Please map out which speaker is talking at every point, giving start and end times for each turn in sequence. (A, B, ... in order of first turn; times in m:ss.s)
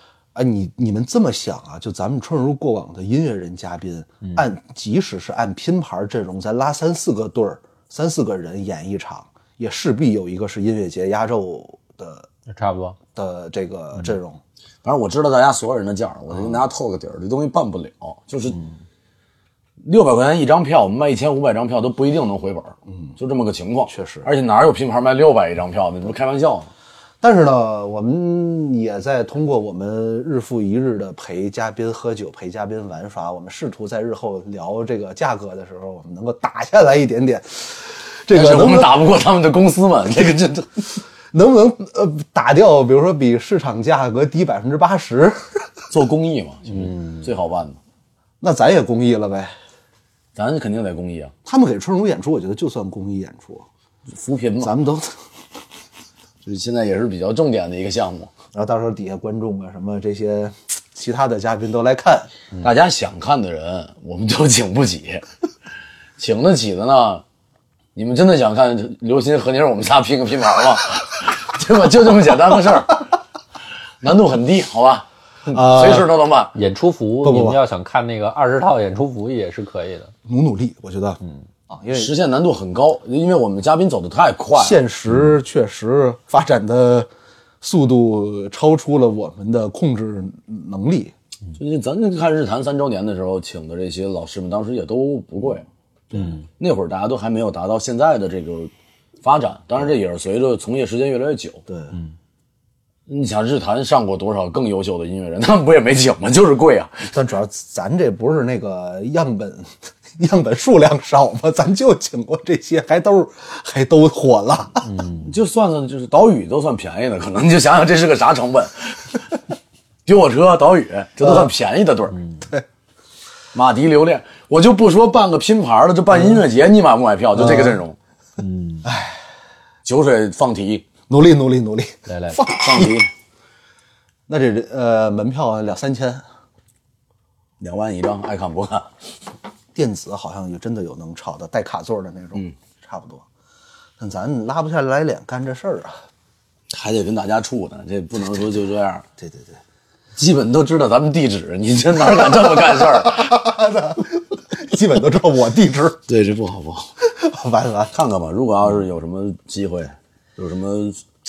0:00.4-0:12.3 A
0:12.5-0:13.0 B
0:13.2-0:14.4 A
0:14.8-0:18.6 C
0:19.8-0:26.7 C
0:22.9-0:23.1 A
0:23.9-0:24.3 A
0:27.2-0:39.0 A
0:38.3-0:40.7 C
0:41.3-0:45.7 A
0:45.9-0:47.8 C
0:46.7-0:47.2 A
0:48.4-0:49.6 A
0:50.4-0:51.3 C
0:51.4-0:53.7 A
0:54.1-0:54.7 C
0:54.6-0:55.2 A
0:56.4-0:58.3 C
0:58.5-1:02.6 A
1:02.6-1:05.2 C
1:06.2-1:07.2 C
1:08.0-1:13.0 C
1:14.0-1:16.5 C
1:15.5-1:16.1 A
1:16.6-1:20.1 B
1:17.2-1:17.6 A
1:20.2-1:22.1 A
1:21.9-1:24.8 C
1:24.6-1:31.1 A
1:31.6-1:35.7 C
1:36.5-1:38.7 C
1:39.2-1:41.6 C
1:41.7-1:42.0 A
1:43.1-1:47.1 C
1:47.1-1:54.9 A
1:54.8-1:55.3 B
1:55.2-1:59.2 C
2:00.1-2:02.2 C
2:03.5-2:08.0 C
2:07.4-2:07.8 A
2:08.4-2:08.9 B
2:08.8-2:09.2 A
2:09.8-2:10.8 C
2:11.1-2:12.9 A
2:12.1-2:12.4 B
2:12.5-2:13.1 C
2:14.3-2:16.2 A
2:17.6-2:18.9 C
2:19.7-2:23.3 A
2:24.0-2:26.0 A
2:26.7-2:29.0 C
2:29.2-2:29.6 A
2:30.2-2:33.4 C
2:33.0-2:36.0 A
2:36.1-2:36.9 C
2:37.0-2:37.9 A
2:37.9-2:41.0 C